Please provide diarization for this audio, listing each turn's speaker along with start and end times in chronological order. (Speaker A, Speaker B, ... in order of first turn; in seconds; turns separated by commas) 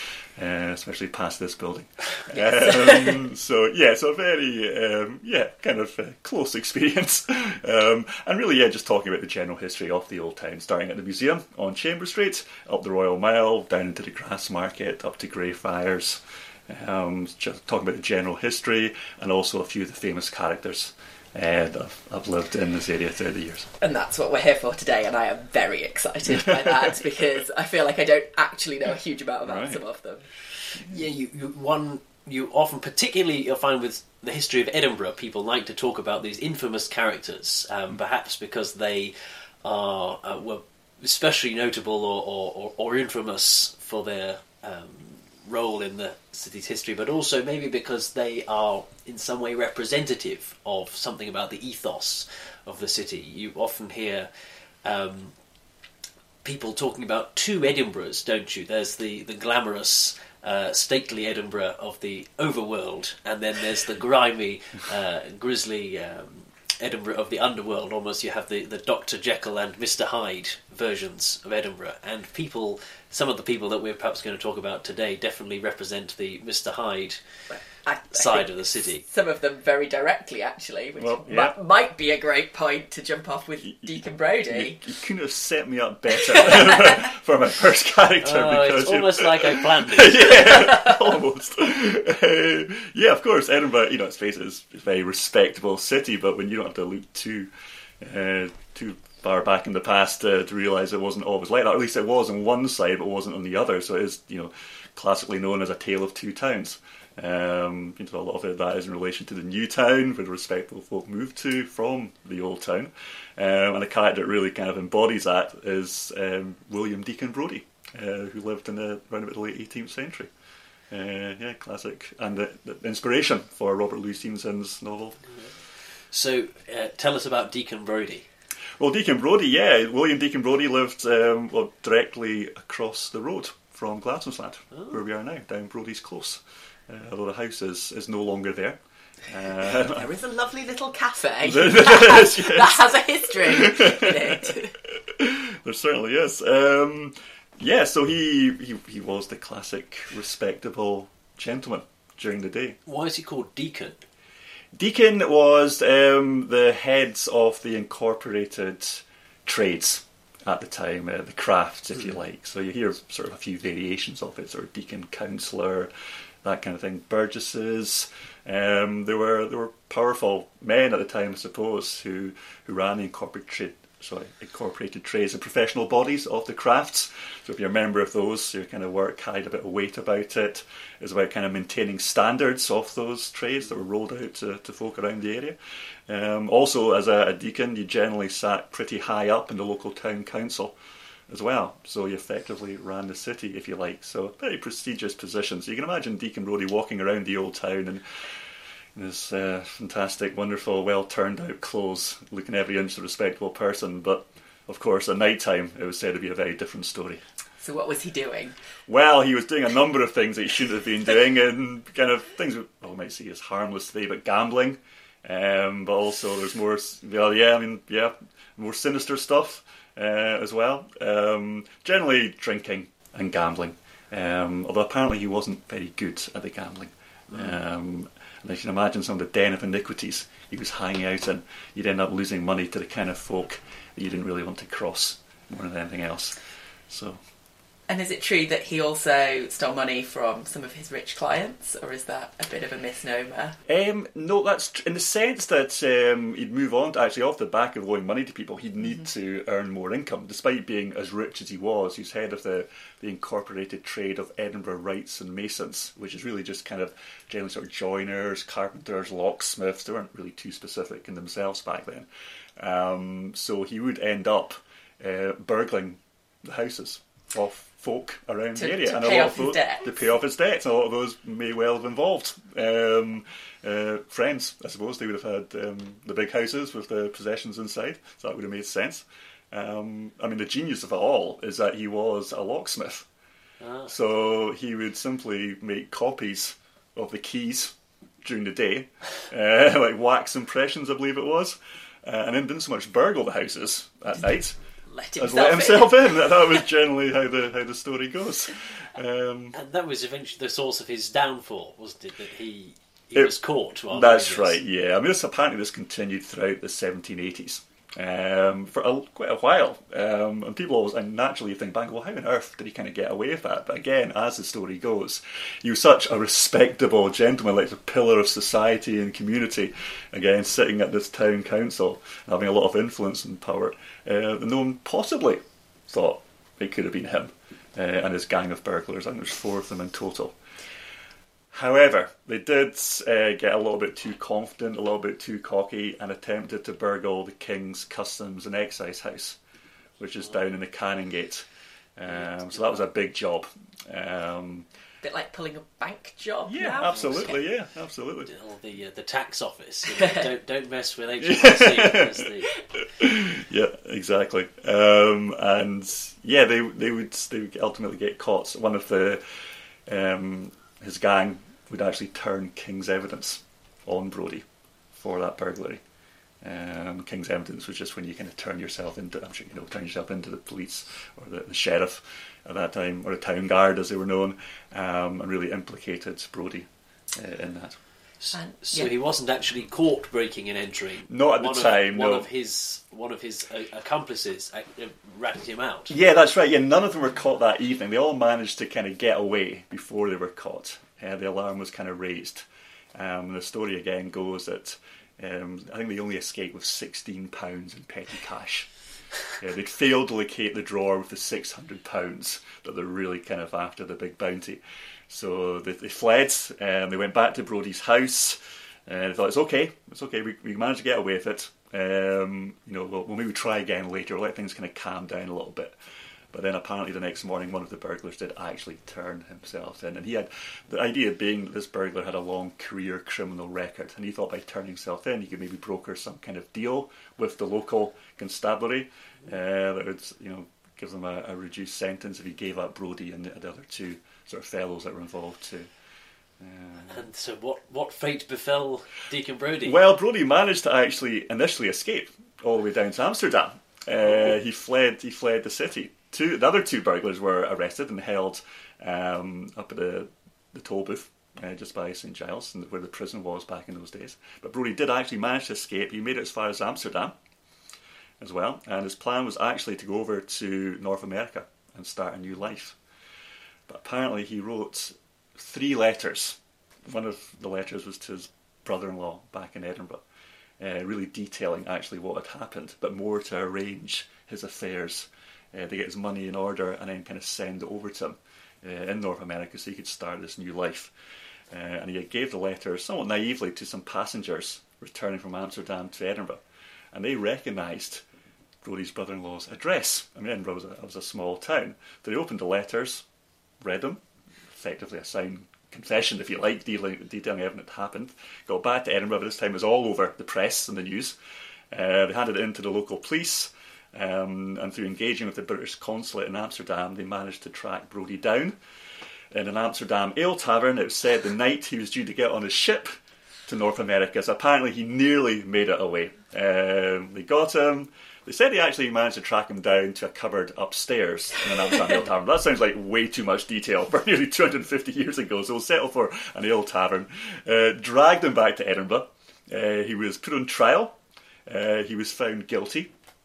Speaker A: 0.4-23.7, Speaker B: 2.4-3.2, Speaker B: 23.8-30.3, Speaker A: 26.5-26.9, Speaker A: 29.4-29.8, Speaker C: 30.8-54.3, Speaker C: 54.8-55.3, Speaker C: 56.4-77.2, Speaker B: 77.5-84.8, Speaker C: 78.1-79.0, Speaker A: 81.0-81.5, Speaker A: 84.5-120.3, Speaker B: 86.2-87.1, Speaker C: 88.2-90.6, Speaker A: 120.9-125.3, Speaker C: 126.1-128.3, Speaker A: 128.8-140.1, Speaker B: 139.6-144.7, Speaker A: 141.4-144.5, Speaker A: 145.0-152.8, Speaker C: 152.9-154.0, Speaker A: 154.7-165.9, Speaker A: 166.4-190.8, Speaker A: 191.3-198.1, Speaker A: 198.9-207.2, Speaker B: 207.6-208.6, Speaker A: 208.9-236.4, Speaker A: 236.9-237.2, Speaker B: 237.9-243.6, Speaker A: 243.7-262.1, Speaker A: 262.6-283.1, Speaker B: 268.6-269.9, Speaker C: 283.6-283.9, Speaker A: 283.9-294.6, Speaker B: 294.9-296.4, Speaker A: 295.2-299.6, Speaker C: 299.5-304.6, Speaker A: 303.9-330.4, Speaker A: 331.5-339.4, Speaker A: 340.0-341.5, Speaker A: 342.0-344.7, Speaker C: 342.1-342.9, Speaker B: 345.0-347.4, Speaker A: 346.5-348.3, Speaker C: 346.9-347.3, Speaker C: 348.3-352.5, Speaker B: 350.0-350.2, Speaker A: 351.2-359.2, Speaker A: 359.9-365.8, Speaker A: 366.4-377.8, Speaker C: 378.2-385.9, Speaker B: 378.3-378.9, Speaker A: 381.1-382.3, Speaker A: 385.9-398.7, Speaker A: 399.4-415.8, Speaker A: 416.3-435.7, Speaker A: 436.4-437.0, Speaker C: 436.9-439.8, Speaker A: 439.6-457.1, Speaker A: 458.2-462.8, Speaker A: 463.7-470.0, Speaker A: 470.6-480.9, Speaker A: 481.5-486.4, Speaker A: 486.9-488.0, Speaker A: 488.6-493.0, Speaker A: 493.6-494.0, Speaker A: 494.5-501.2, Speaker A: 501.7-508.6, Speaker A: 509.3-512.9, Speaker A: 513.5-532.9